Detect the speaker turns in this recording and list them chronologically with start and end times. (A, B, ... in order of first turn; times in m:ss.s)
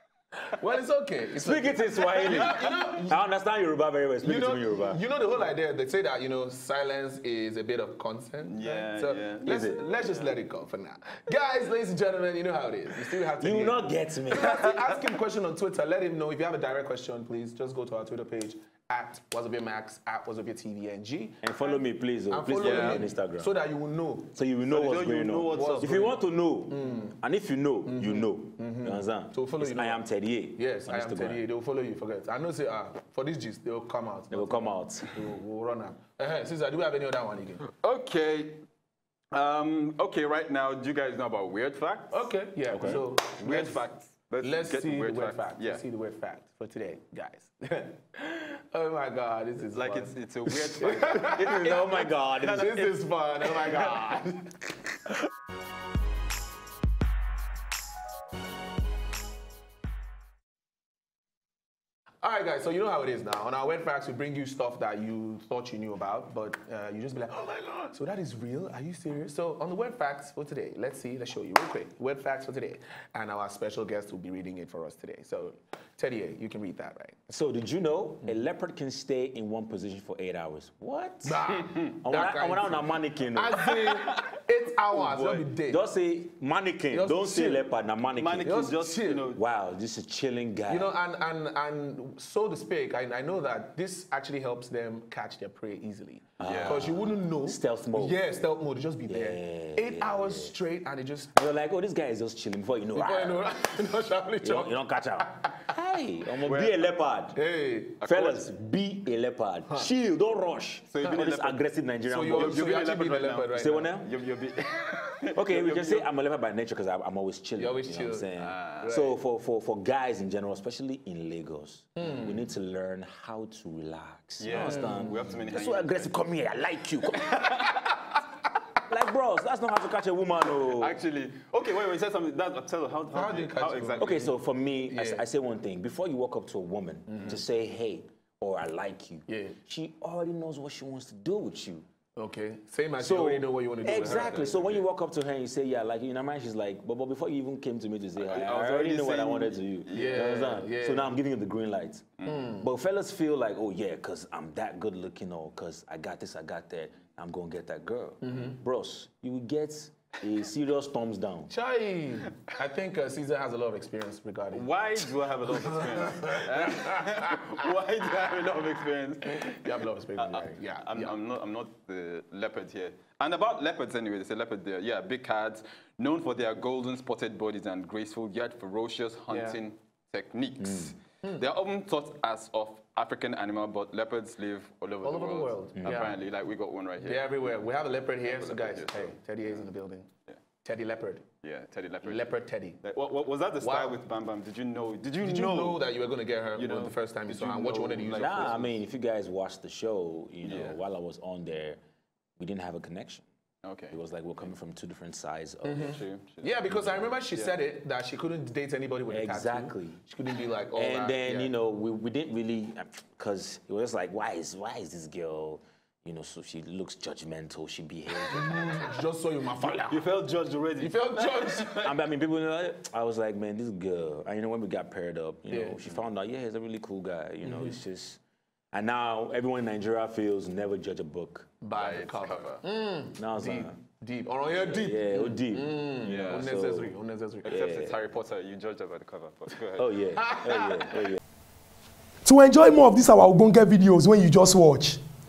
0:00.5-0:03.2 A
0:01.4-0:05.0 B
0:02.2-0:02.7 C
0:04.2-0:21.4 A
0:08.4-0:10.4 C
0:09.5-0:09.8 B
0:13.4-0:14.6 B
0:14.4-0:14.7 C
0:21.4-0:23.5 B
0:22.3-0:24.4 A
0:22.6-0:23.1 C
0:24.4-0:31.4 B
0:24.7-0:26.1 C
0:25.5-0:26.1 A
0:26.7-0:27.2 A
0:27.8-0:37.6 A
0:34.3-0:35.2 B
0:37.8-0:38.6 C
0:39.3-0:42.3 C
0:42.1-0:43.9 A
0:42.7-0:43.0 B
0:42.8-0:45.8 C
0:44.4-0:51.5 A
0:49.6-0:54.2 C
0:51.2-0:52.8 B
0:52.5-0:54.8 A
1:02.2-1:17.2 A
1:17.3-1:21.4 B
1:21.2-1:25.8 A
1:22.0-1:23.7 B
1:23.7-1:24.4 C
1:24.9-1:25.4 C
1:25.7-1:28.7 B
1:26.9-1:27.7 A
1:28.2-1:29.4 C
1:28.4-1:29.3 A
1:29.3-1:30.9 B
1:30.7-1:41.4 A
1:36.4-1:36.9 C
1:36.4-1:38.2 B
1:39.1-1:40.5 B
1:41.4-1:43.6 B
1:42.9-1:44.8 A
1:44.4-1:47.4 B
1:46.4-1:46.8 C
1:47.4-1:48.0 A
1:48.0-1:48.5 C
1:48.0-1:52.7 B
1:50.9-1:51.6 C
1:52.1-1:53.9 A
1:52.3-1:56.1 C
1:53.5-1:54.1 B
1:55.4-2:07.5 B
1:57.6-1:59.2 A
1:58.4-1:58.9 C
2:02.0-2:02.4 A
2:04.4-2:06.2 C
2:04.6-2:04.9 A
2:07.2-2:08.2 C
2:08.9-2:11.0 B
2:10.5-2:14.3 C
2:13.1-2:14.2 A
2:14.0-2:21.8 B
2:14.9-2:15.2 A
2:17.1-2:17.4 A
2:19.3-2:19.6 A
2:22.2-2:24.5 A
2:23.0-2:41.5 B
2:23.9-2:24.8 C
2:28.2-2:30.5 C
2:29.9-2:31.2 A
2:32.2-2:32.7 A
2:38.2-2:38.6 A
2:41.5-2:44.7 A
2:44.5-3:07.5 C
2:45.6-2:47.2 A
2:49.5-2:51.2 A
2:59.3-2:59.6 A
3:00.6-3:00.9 B
3:05.0-3:06.2 A
3:05.8-3:06.0 B
3:07.0-3:10.1 A
3:08.2-3:09.6 C
3:10.6-3:11.2 A
3:11.4-3:12.3 C
3:12.0-3:12.8 A
3:12.8-3:15.8 C
3:13.6-3:14.0 A
3:15.2-3:18.7 A
3:16.6-3:18.7 C
3:18.1-3:21.8 B
3:20.4-3:20.8 C
3:22.4-3:23.2 B
3:23.6-3:24.0 C
3:23.9-3:26.0 B
3:25.6-3:31.5 A
3:25.7-3:26.6 C
3:26.7-3:27.1 B
3:27.2-3:27.5 C
3:29.1-3:30.0 B
3:30.7-3:39.0 B
3:38.2-3:40.1 A
3:39.7-3:42.0 C
3:40.8-3:41.9 A
3:41.8-3:48.2 B
3:45.5-3:45.8 A
3:48.7-3:51.6 B
3:51.6-3:57.6 A
3:51.8-3:52.6 C
3:53.2-3:53.8 B
3:54.5-3:56.9 B
3:56.0-3:56.5 C
3:57.4-3:59.9 C
3:57.4-3:57.9 B
3:59.8-4:01.2 B
4:00.2-4:01.1 A
4:02.2-4:05.0 D